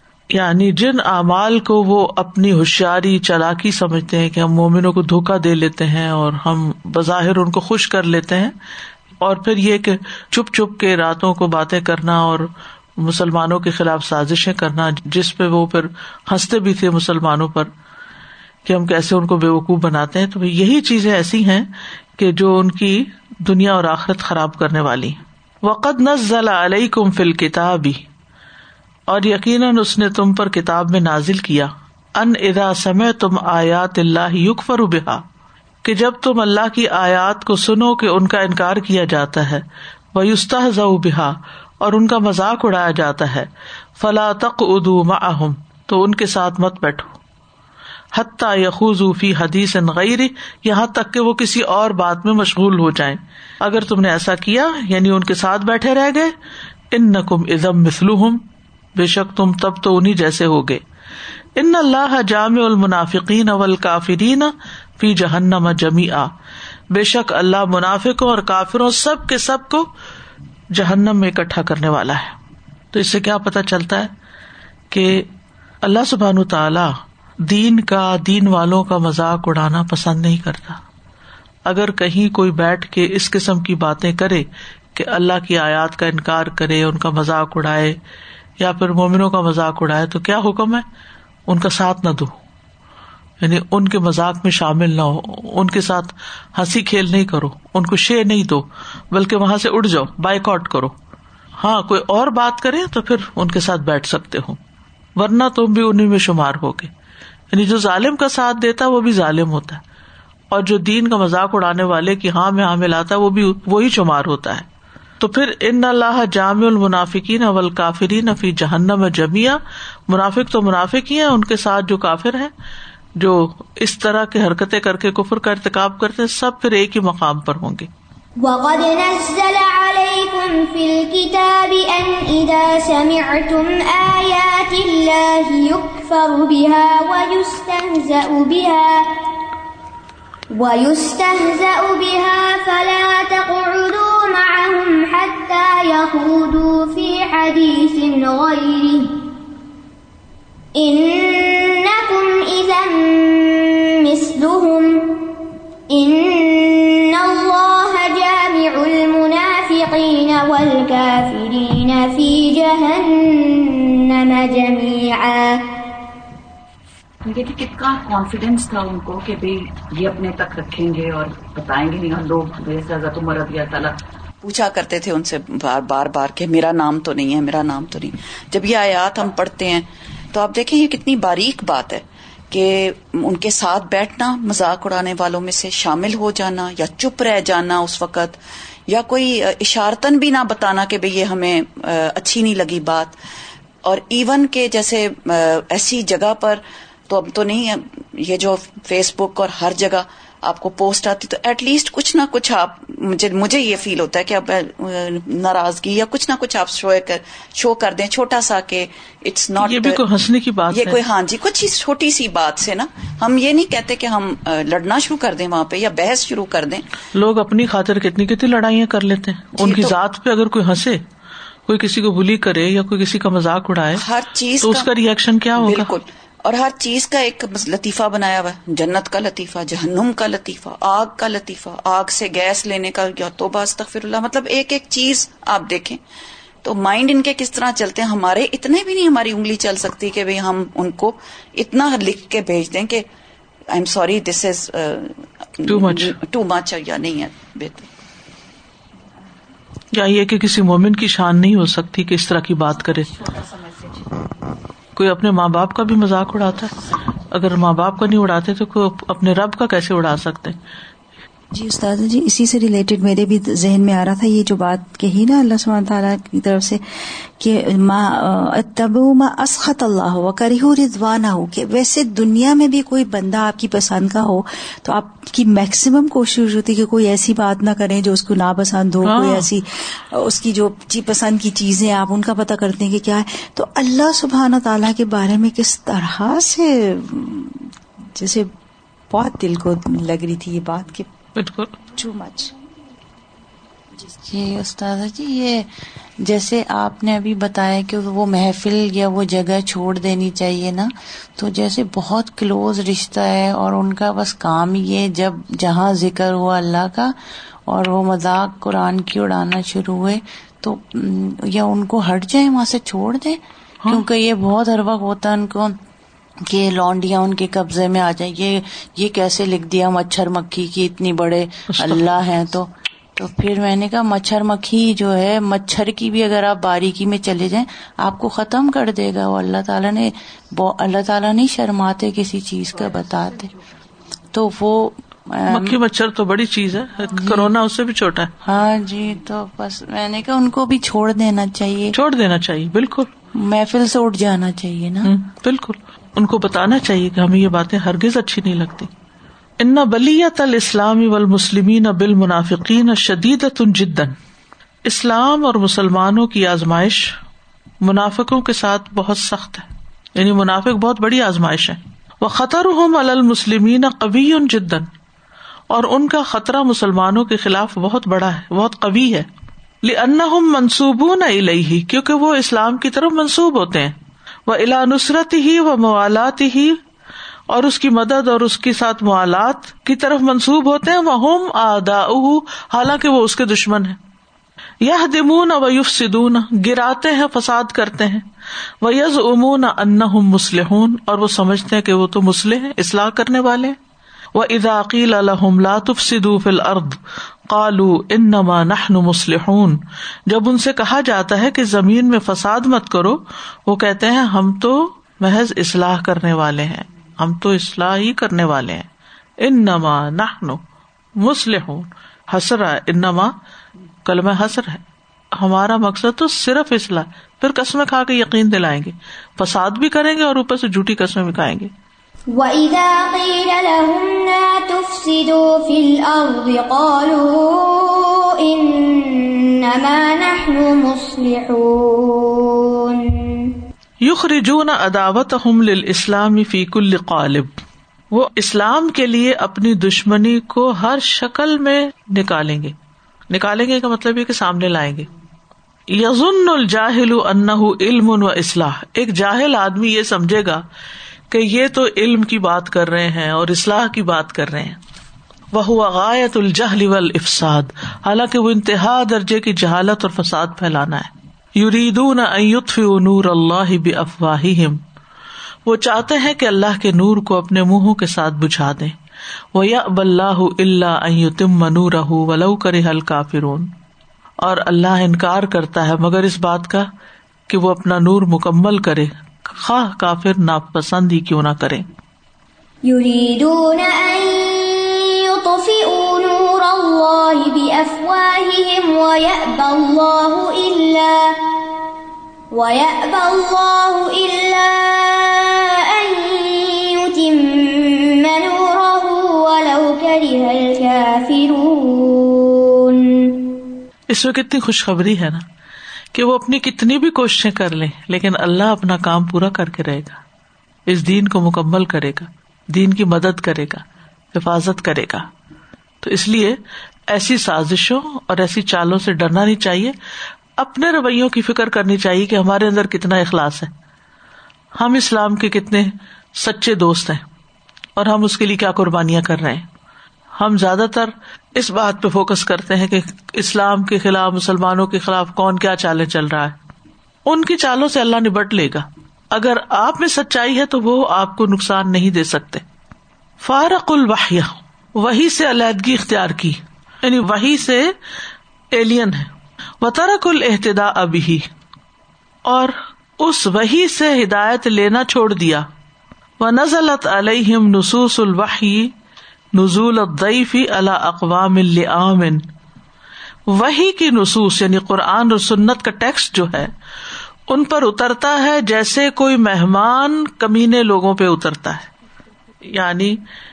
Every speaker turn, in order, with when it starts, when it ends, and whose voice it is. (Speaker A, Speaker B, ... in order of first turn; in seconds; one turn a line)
Speaker A: 0.3-8.6
Speaker A: 9.2-17.7
Speaker A: 18.6-28.0
Speaker A: 29.1-35.2
Speaker A: 35.8-47.1
Speaker A: 48.1-56.3
Speaker A: 56.9-58.4
Speaker A: 59.0-60.8
Speaker A: 61.6-66.3
Speaker A: 66.9-69.9
Speaker A: 70.7-72.3
Speaker A: 72.9-74.1
Speaker A: 74.9-75.3
Speaker A: 75.8-80.8
Speaker A: 81.7-88.0
Speaker A: 88.6-90.8
Speaker A: 91.5-92.3
Speaker A: 93.4-100.9
Speaker A: 101.6-104.6
Speaker A: 105.2-106.9
Speaker A: 107.5-109.8
Speaker A: 110.5-114.7
Speaker A: 115.2-122.5
Speaker A: 123.2-127.9
Speaker B: 128.4-139.1
Speaker B: 140.5-149.2
Speaker B: 150.7-155.3
Speaker B: 155.9-165.7
Speaker C: 167.2-193.2
Speaker C: 193.8-210.0
Speaker A: 209.6-211.0
Speaker C: 210.7-216.9
Speaker A: 217.1-221.0
Speaker C: 219.6-219.9
Speaker A: 221.7-224.0
Speaker C: 223.9-224.9
Speaker A: 224.6-225.9
Speaker C: 225.6-236.0
Speaker C: 236.6-243.1
Speaker C: 243.7-247.9
Speaker A: 245.7-246.2
Speaker A: 249.9-253.2
Speaker C: 253.2-254.3
Speaker A: 254.9-256.8
Speaker A: 257.3-260.6
Speaker D: 261.5-288.5
Speaker A: 279.0-279.5
Speaker D: 289.1-291.1
Speaker A: 291.4-291.8
Speaker D: 291.9-292.5
Speaker E: 294.2-307.2
Speaker E: 307.7-315.8
Speaker E: 316.4-333.5
Speaker A: 321.7-322.1
Speaker E: 334.3-335.8
Speaker A: 335.5-338.3
Speaker E: 337.2-337.5
Speaker E: 338.4-341.9
Speaker A: 341.9-343.1
Speaker E: 343.3-345.1
Speaker A: 345.0-348.9
Speaker A: 349.6-354.1
Speaker A: 354.8-357.1
Speaker A: 357.8-364.9
Speaker A: 365.7-369.3
Speaker A: 369.8-373.9
Speaker A: 374.4-376.8
Speaker A: 377.5-384.0
Speaker A: 384.8-388.2
Speaker A: 388.8-393.8
Speaker A: 394.3-397.0
Speaker A: 397.5-408.9
Speaker A: 409.4-410.6
Speaker A: 411.2-413.3
Speaker A: 414.1-414.8
Speaker A: 415.4-421.7
Speaker B: 422.3-433.6
Speaker A: 434.0-437.5
Speaker A: 438.1-442.7
Speaker A: 443.3-445.1
Speaker A: 445.9-450.6
Speaker A: 451.3-454.8
Speaker A: 455.5-464.8
Speaker A: 465.7-468.9
Speaker A: 469.5-473.7
Speaker A: 474.4-476.9
Speaker A: 477.5-481.9
Speaker B: 482.8-491.6
Speaker B: 492.5-503.6
Speaker A: 504.1-505.4
Speaker A: 506.1-510.2
Speaker A: 510.9-515.3
Speaker A: 516.0-520.0
Speaker A: 520.6-523.7
Speaker A: 524.8-527.2
Speaker A: 528.0-529.6
Speaker A: 530.4-536.5
Speaker A: 537.3-542.6
Speaker A: 543.4-547.9
Speaker A: 548.7-549.3
Speaker A: 549.8-551.5
Speaker A: 552.4-555.6
Speaker A: 556.4-558.9
Speaker A: 559.5-562.4
Speaker A: 563.5-566.7
Speaker A: 567.5-571.9
Speaker A: 572.6-573.2